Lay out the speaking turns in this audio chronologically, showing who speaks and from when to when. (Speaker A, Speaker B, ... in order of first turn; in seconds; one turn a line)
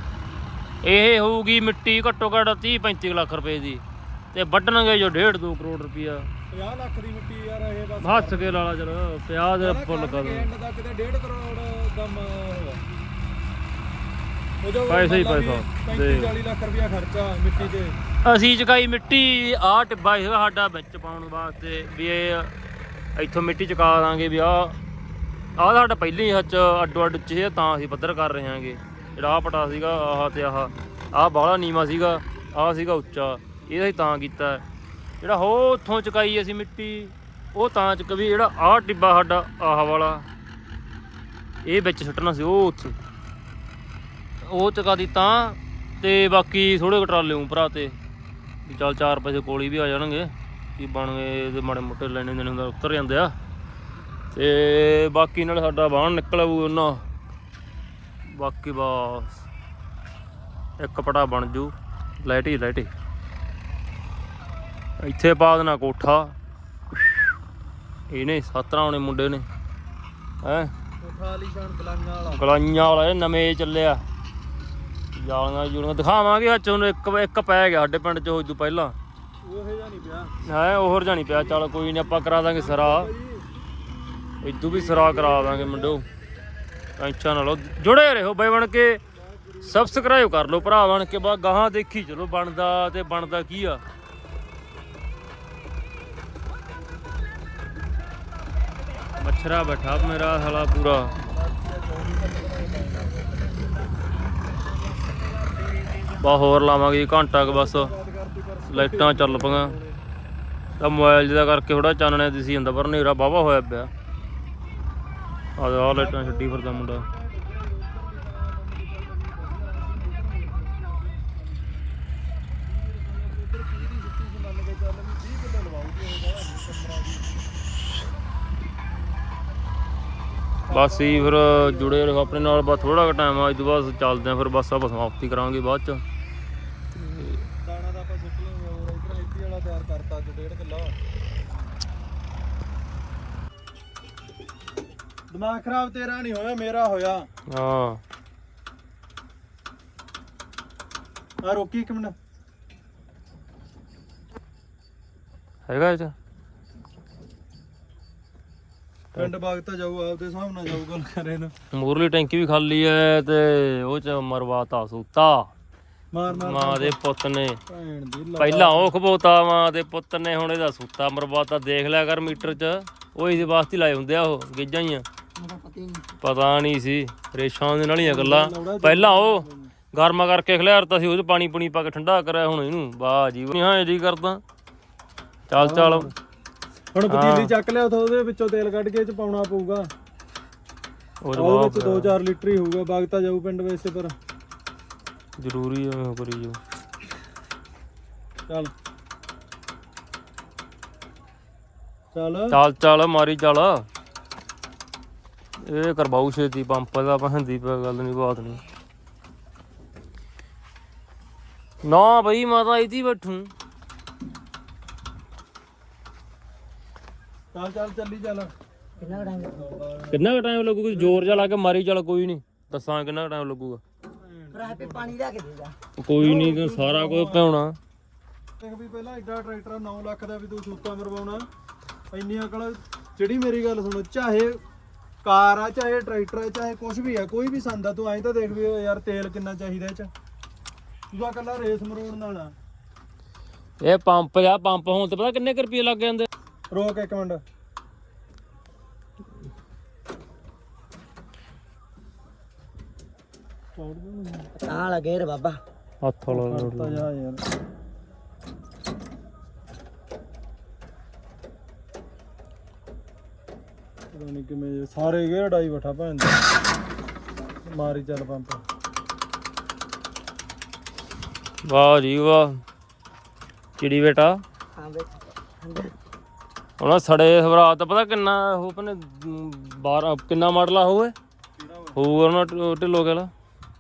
Speaker A: 0.8-6.3
Speaker B: 6.5-8.6
Speaker A: 8.0-10.5
Speaker B: 9.6-12.8
Speaker B: 14.6-18.0
Speaker A: 14.9-16.3
Speaker A: 18.2-22.5
Speaker A: 23.2-24.8
Speaker A: 25.6-34.6
Speaker A: 35.2-40.3
Speaker A: 41.6-43.0
Speaker A: 44.4-48.0
Speaker A: 48.7-53.4
Speaker A: 54.3-57.0
Speaker A: 58.3-59.5
Speaker A: 60.8-62.9
Speaker A: 65.0-66.3
Speaker A: 66.9-67.3
Speaker A: 68.1-69.5
Speaker A: 70.4-70.7
Speaker B: 71.0-72.4
Speaker A: 72.3-74.0
Speaker A: 75.2-79.0
Speaker B: 79.4-80.3
Speaker A: 80.5-83.1
Speaker B: 81.2-83.5
Speaker A: 84.4-86.0
Speaker B: 84.6-86.0
Speaker A: 87.0-89.0
Speaker B: 89.1-91.0
Speaker A: 89.6-93.8
Speaker A: 99.2-101.1
Speaker B: 99.9-103.5
Speaker B: 104.7-106.3
Speaker A: 106.2-107.9
Speaker B: 107.4-110.0
Speaker A: 108.7-109.8
Speaker A: 110.8-113.9
Speaker A: 115.6-117.0
Speaker B: 115.9-122.0
Speaker B: 122.6-127.5
Speaker B: 130.7-134.3
Speaker A: 130.7-136.0
Speaker A: 136.9-137.4
Speaker B: 137.6-141.0
Speaker B: 145.3-147.3
Speaker A: 147.5-148.0
Speaker B: 151.4-152.2
Speaker A: 155.7-156.2
Speaker B: 159.2-161.5
Speaker A: 161.7-165.5
Speaker B: 166.1-167.0
Speaker A: 166.3-167.6
Speaker B: 167.7-168.9
Speaker A: 168.4-175.1
Speaker C: 175.3-176.2
Speaker A: 176.2-184.4
Speaker B: 178.0-179.7
Speaker A: 185.5-186.1
Speaker B: 185.6-186.2
Speaker B: 186.9-189.9
Speaker A: 187.1-187.5
Speaker A: 191.2-192.2
Speaker B: 191.4-194.2
Speaker A: 195.4-196.6
Speaker B: 198.5-198.7
Speaker B: 202.1-202.6
Speaker A: 202.5-203.9
Speaker A: 205.6-208.6
Speaker A: 211.8-213.5
Speaker B: 217.5-220.2
Speaker C: 219.0-219.6
Speaker A: 220.1-223.8
Speaker B: 220.9-221.5
Speaker B: 224.2-225.2
Speaker C: 224.5-225.8
Speaker A: 226.0-227.8
Speaker B: 226.2-227.5
Speaker B: 228.6-231.5
Speaker B: 232.1-234.6
Speaker B: 235.2-240.1
Speaker B: 241.1-242.6
Speaker A: 243.8-246.3
Speaker B: 246.7-247.4
Speaker B: 253.8-254.5
Speaker C: 254.6-255.6
Speaker A: 256.0-257.1
Speaker B: 256.3-257.4
Speaker B: 264.1-266.4
Speaker B: 267.6-268.6
Speaker A: 271.6-272.6
Speaker A: 273.8-274.4
Speaker C: 274.7-275.9
Speaker A: 276.8-281.1
Speaker B: 281.6-282.0
Speaker A: 282.0-283.3